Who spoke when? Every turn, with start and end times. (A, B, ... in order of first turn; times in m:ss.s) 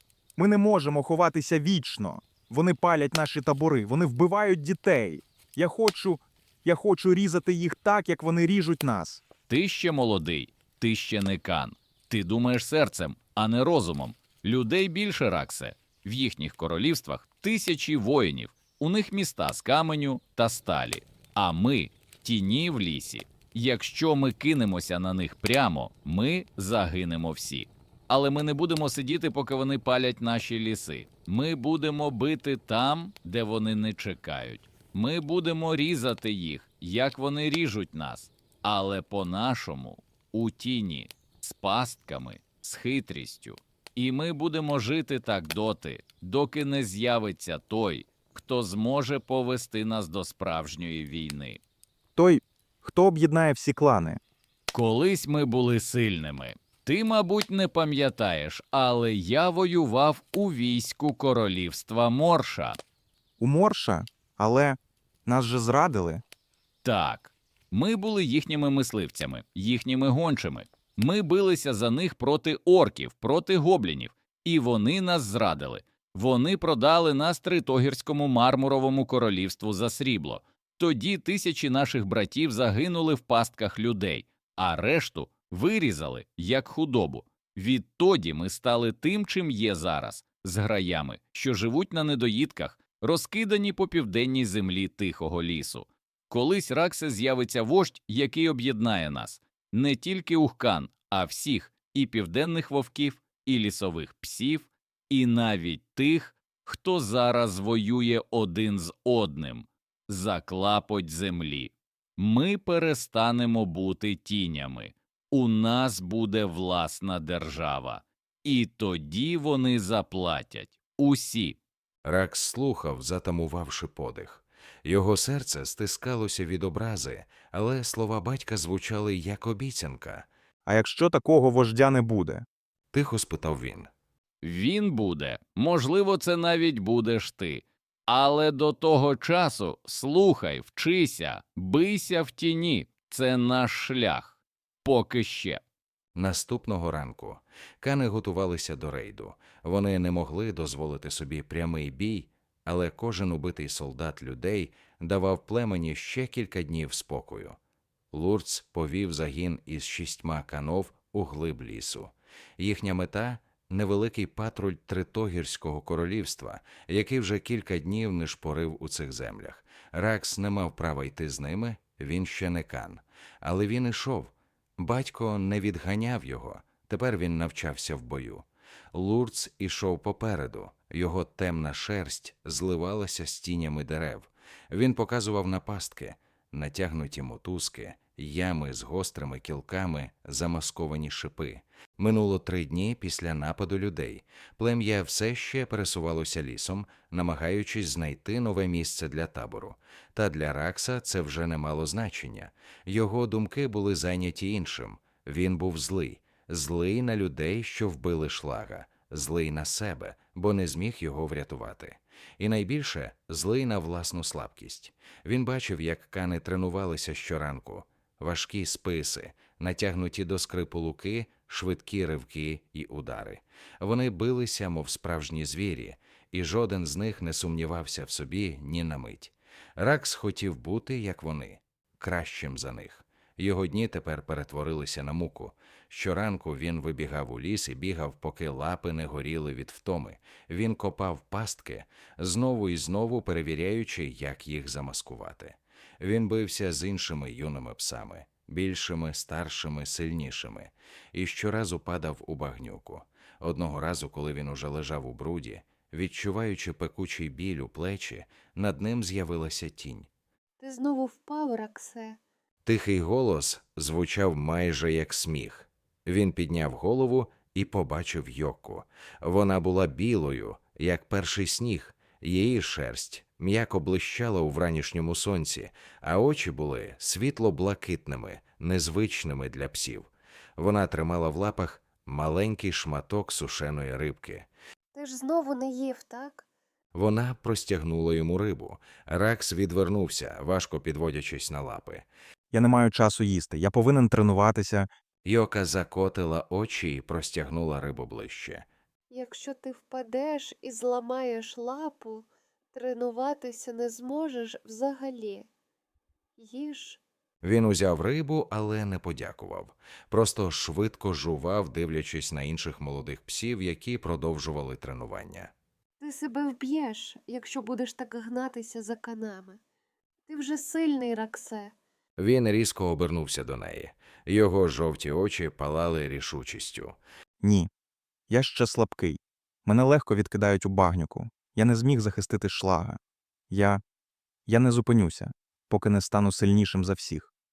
0:00.4-0:09.2 A
0:09.5-0:51.6 B
0:52.2-0:54.2 A
0:54.7-1:02.8 B
1:03.4-1:06.2 A
1:06.8-2:01.6 B
2:02.0-2:10.2 C
2:10.6-2:12.4 A
2:12.9-2:13.9 C
2:14.4-2:25.6 B
2:26.1-2:37.6 C
2:38.1-4:20.1 C
4:20.6-4:22.2 D
4:22.6-4:44.5 C
4:44.9-4:46.4 D
4:46.9-4:52.0 C
4:52.5-4:54.9 A
4:55.2-4:58.6 C
4:59.1-5:05.5 D
5:06.4-5:07.0 D
5:07.4-5:15.5 C
5:16.0-5:19.6 D
5:20.3-5:21.7 D
5:22.2-5:27.0 C
5:27.4-5:27.7 A
5:28.3-5:33.0 A
5:33.5-5:33.8 A
5:34.5-5:37.3 A